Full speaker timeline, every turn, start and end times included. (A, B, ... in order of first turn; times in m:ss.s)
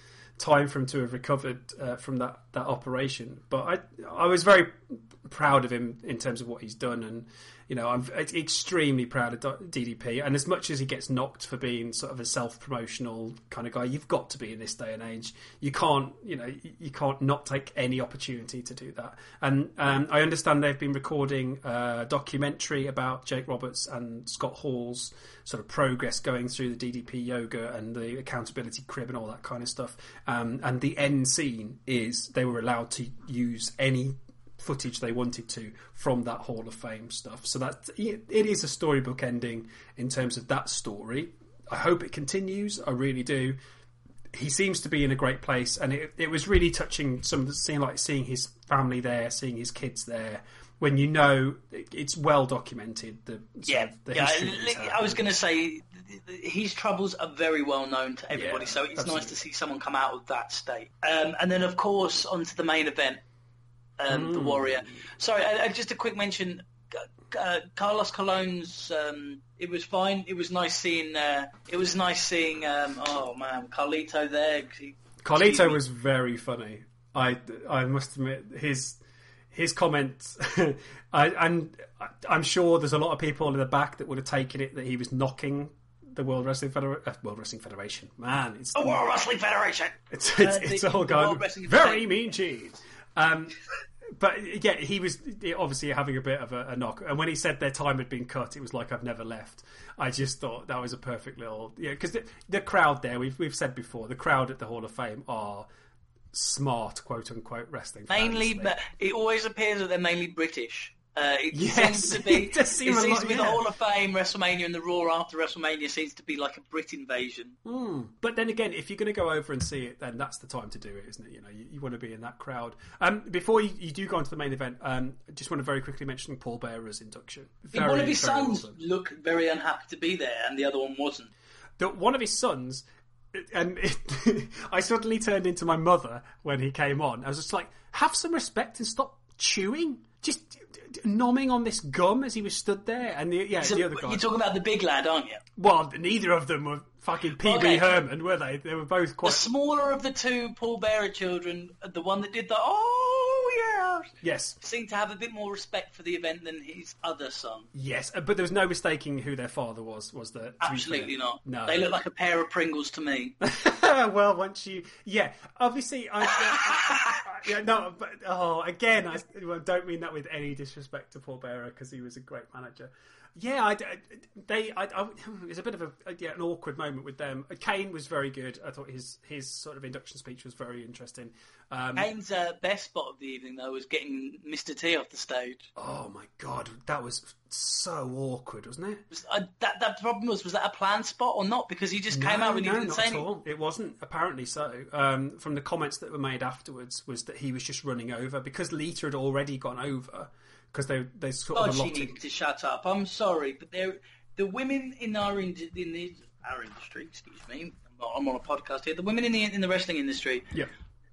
0:00.4-0:43.6 A
0:44.3-0:55.2 A
0:53.6-1:03.2 B
0:58.3-0:59.4 A
1:04.0-1:15.8 B
1:04.1-1:04.7 A
1:15.2-1:19.0 A
1:19.5-1:29.0 A
1:28.7-1:32.2 B
1:30.1-1:33.6 A
1:34.1-1:45.7 A
1:46.3-1:48.7 A
1:48.1-1:57.6 B
1:51.5-1:53.6 A
1:57.6-2:08.7 A
2:07.7-2:11.3 B
2:11.8-2:24.2 A
2:23.6-2:25.4 B
2:25.6-2:29.4 A
2:27.4-2:28.0 B
2:29.2-2:37.7 B
2:34.2-2:34.6 A
2:37.7-2:41.8 A
2:40.6-2:43.4 B
2:43.4-3:02.1 A
2:46.5-2:47.2 B
3:02.0-3:05.7 B
3:05.8-3:09.0 A
3:09.1-3:13.2 B
3:12.1-3:22.2 A
3:21.5-3:30.5 B